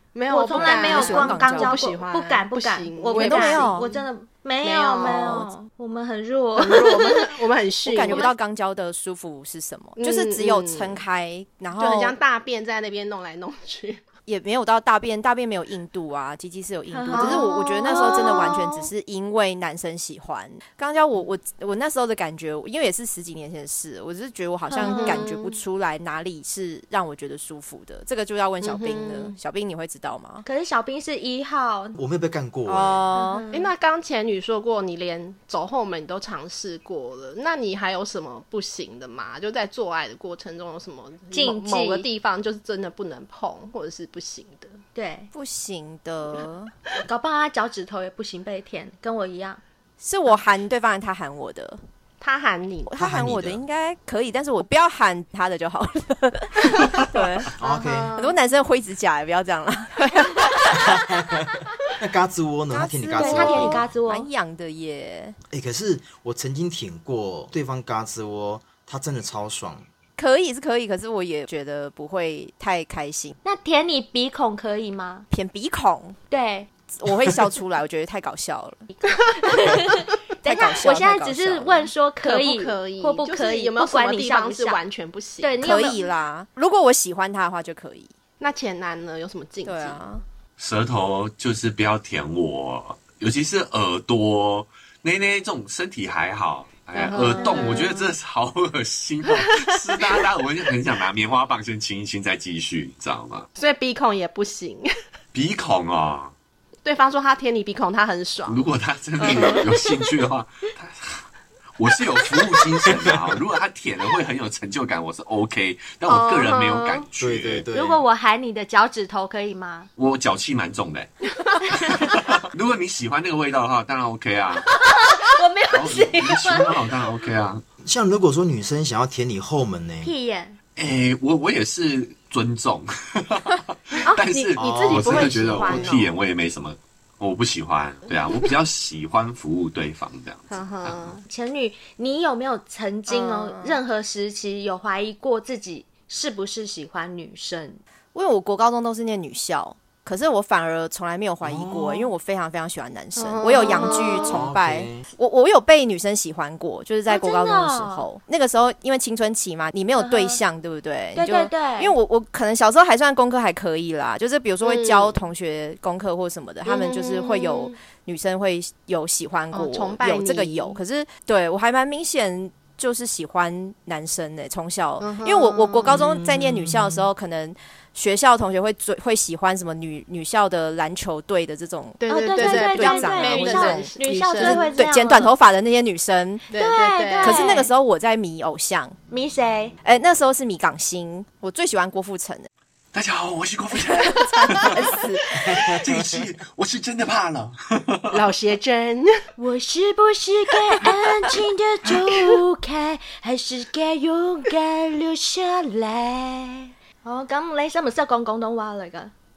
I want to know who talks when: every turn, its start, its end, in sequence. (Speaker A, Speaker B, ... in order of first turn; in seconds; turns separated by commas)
Speaker A: 0.1-4.0, Speaker B: 0.3-7.3, Speaker C: 0.5-1.9, Speaker C: 3.1-3.9, Speaker A: 4.6-5.5, Speaker A: 6.6-8.3, Speaker C: 7.8-12.2, Speaker B: 8.1-8.3, Speaker A: 10.0-11.0, Speaker A: 11.8-14.0, Speaker C: 14.3-30.4, Speaker B: 16.9-18.6, Speaker A: 17.1-18.8, Speaker B: 24.7-25.3, Speaker A: 24.8-25.6, Speaker A: 28.6-29.4, Speaker B: 30.4-32.0, Speaker D: 32.0-33.1, Speaker C: 32.7-33.5, Speaker B: 33.1-33.7, Speaker A: 33.5-44.8, Speaker B: 41.3-42.1, Speaker B: 45.0-45.3, Speaker C: 45.3-46.7, Speaker B: 47.0-49.6, Speaker C: 50.0-51.8, Speaker A: 52.2-52.9, Speaker C: 52.9-57.5, Speaker D: 53.0-53.6, Speaker D: 57.6-58.2, Speaker B: 57.6-57.9, Speaker A: 57.7-58.4, Speaker C: 58.2-61.1, Speaker D: 60.7-63.8, Speaker C: 62.7-65.4, Speaker B: 63.2-64.3, Speaker D: 65.5-69.9, Speaker C: 70.2-73.4, Speaker B: 73.4-75.3, Speaker C: 75.3-76.2, Speaker B: 76.3-76.7, Speaker C: 76.9-78.9, Speaker B: 79.1-84.8, Speaker C: 80.4-81.9, Speaker A: 82.2-85.8, Speaker B: 85.4-86.0, Speaker C: 85.6-88.1, Speaker A: 88.4-90.1, Speaker C: 89.7-90.2, Speaker E: 90.6-103.5, Speaker A: 97.0-98.1, Speaker B: 97.4-97.8, Speaker A: 99.3-100.3, Speaker A: 103.6-104.9, Speaker E: 105.3-106.3, Speaker A: 106.8-108.6, Speaker E: 108.5-111.2, Speaker A: 109.2-109.8, Speaker E: 111.8-117.7, Speaker A: 116.1-117.1, Speaker D: 117.2-118.0, Speaker B: 117.7-119.9, Speaker E: 120.0-124.7, Speaker A: 121.5-122.1, Speaker B: 124.8-126.8, Speaker E: 125.7-127.6, Speaker D: 127.8-130.1, Speaker B: 130.0-130.6, Speaker E: 130.8-141.2, Speaker A: 134.0-136.1, Speaker D: 134.6-136.1, Speaker A: 140.5-141.2, Speaker B: 141.3-147.8, Speaker C: 143.1-143.8, Speaker C: 148.1-186.5, Speaker D: 151.4-152.1, Speaker A: 153.2-154.2, Speaker B: 153.6-154.4, Speaker D: 154.3-155.1, Speaker B: 157.1-158.1, Speaker B: 160.0-160.4, Speaker B: 161.2-161.9, Speaker A: 164.6-165.2, Speaker A: 166.7-167.8, Speaker A: 169.5-170.8, Speaker A: 175.0-176.1, Speaker D: 175.9-177.1, Speaker A: 182.0-184.8, Speaker B: 182.1-185.3, Speaker A: 186.5-187.7, Speaker B: 186.5-187.7, Speaker C: 187.2-189.0, Speaker B: 189.1-189.8, Speaker C: 189.8-192.5, Speaker E: 192.9-198.2, Speaker C: 194.0-195.6, Speaker D: 195.3-196.3, Speaker A: 198.1-199.2, Speaker B: 199.4-209.1